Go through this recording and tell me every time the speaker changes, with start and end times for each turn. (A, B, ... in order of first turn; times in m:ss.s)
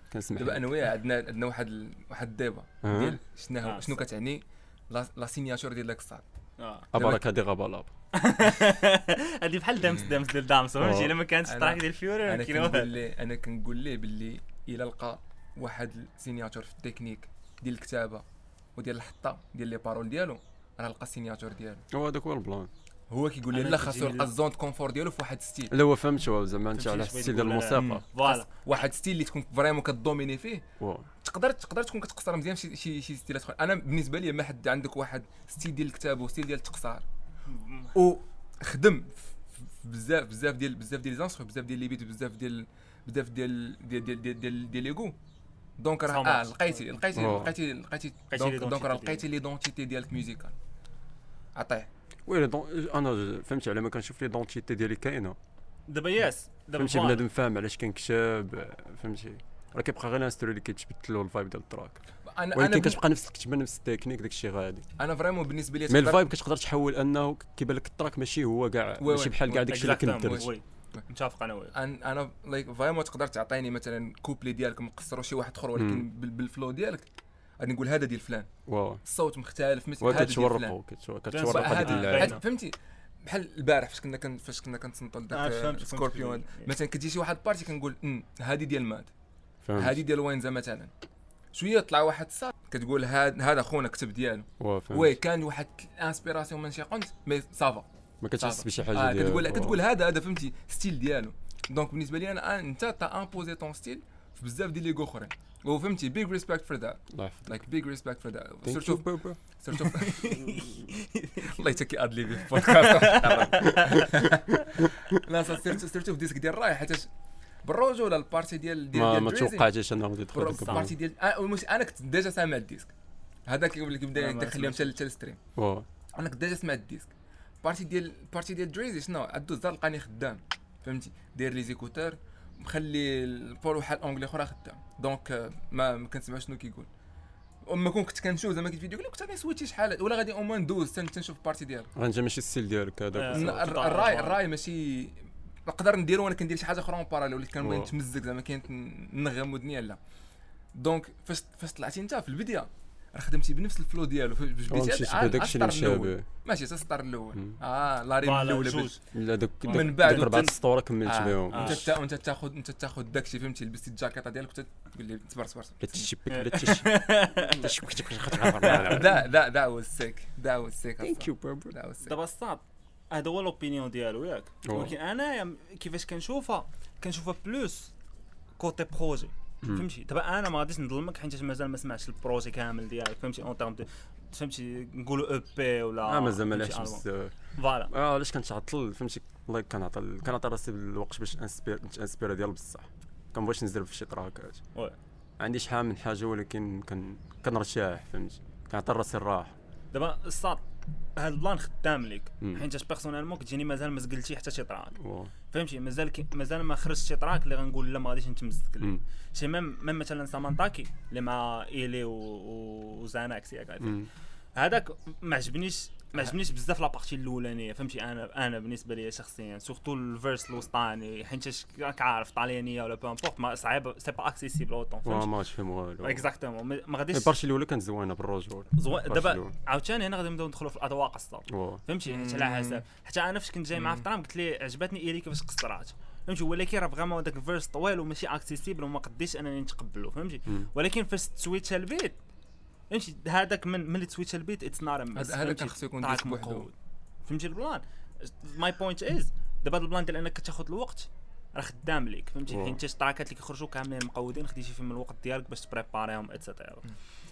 0:00.1-0:00.6 A
0:00.3-0:06.2 B
0:02.8-0:03.2 A
0:03.6-0:04.0 C
0:06.6-0:06.9 C
0:06.9-0:07.2 B
0:06.9-0:07.9 A
0:08.1-0:12.9 C
0:10.8-0:11.1 A
0:11.4-0:18.2 B
0:18.8-0:21.8 B
0:21.9-0:22.7 A
0:23.1-0:25.7 B
0:23.5-0:24.3 C
0:25.7-0:28.0 A
0:26.7-0:28.5 C
0:27.7-0:30.6 B
0:30.8-0:31.1 A
0:31.2-0:37.0 B
0:37.5-0:37.9 C
0:37.9-0:45.1 B
0:45.8-0:50.5 B
0:46.1-0:46.8 C
0:47.1-0:47.5 A
0:48.3-0:49.2 C
0:51.5-0:51.9 B
0:52.2-0:55.4 A
0:55.9-0:57.2 C
0:56.8-1:02.0 A
1:02.3-1:03.0 B
1:02.5-1:04.8 A
1:05.0-1:06.2 B
1:05.9-1:10.5 A
1:09.0-1:10.4 B
1:09.7-1:11.7 C
1:11.7-1:17.0 B
1:15.7-1:16.0 A
1:17.6-1:18.5 B
1:18.6-1:19.0 A
1:19.0-1:20.8 B
1:20.0-1:22.4 A
1:21.3-1:22.4 C
1:21.5-1:29.1 B
1:25.3-1:26.7 C
1:29.6-1:30.0 A
1:29.7-1:30.9 B
1:31.5-1:37.8 B
1:34.6-1:35.2 A
1:38.2-1:39.8 A
1:38.4-1:50.3 B
1:47.1-1:47.6 A
1:48.6-1:49.4 A
1:50.0-1:51.6 C
1:51.5-1:57.1 B
1:52.6-1:54.2 C
1:57.6-1:59.7 B
1:58.9-2:00.9 A
2:00.3-2:02.9 B
2:03.5-2:05.4 B
2:04.1-2:04.9 C
2:05.6-2:05.9 A
2:06.1-2:16.9 B
2:17.6-2:21.9 B
2:21.9-2:23.6 A
2:23.1-2:24.4 C
2:23.3-2:30.0 B
2:27.6-2:27.9 A
2:30.7-2:46.1 B
2:34.7-2:36.2 A
2:38.2-2:39.0 C
2:39.1-2:41.9 A
2:39.6-2:40.5 C
2:41.5-2:41.8 C
2:45.8-2:49.2 A
2:46.3-2:47.6 C
2:48.6-2:52.1 B
2:51.0-2:51.8 A
2:52.0-2:57.9 C
2:54.6-2:54.9 A
2:58.6-3:07.9 C
3:06.0-3:14.6 A
3:15.4-3:19.5 A
3:19.9-3:20.6 C
3:21.2-3:25.0 C
3:22.4-3:22.6 A
3:25.0-3:25.3 A
3:25.5-3:45.3 C
3:33.8-3:34.1 A
3:45.0-3:46.3 A
3:46.0-3:47.3 C
3:47.1-3:49.5 A
3:48.7-4:02.2 C
3:51.5-3:51.8 A
3:52.1-3:52.8 B
3:53.8-3:54.0 B
4:02.9-4:06.7 C
4:05.2-4:06.7 B
4:07.2-4:16.8 C
4:12.5-4:12.8 A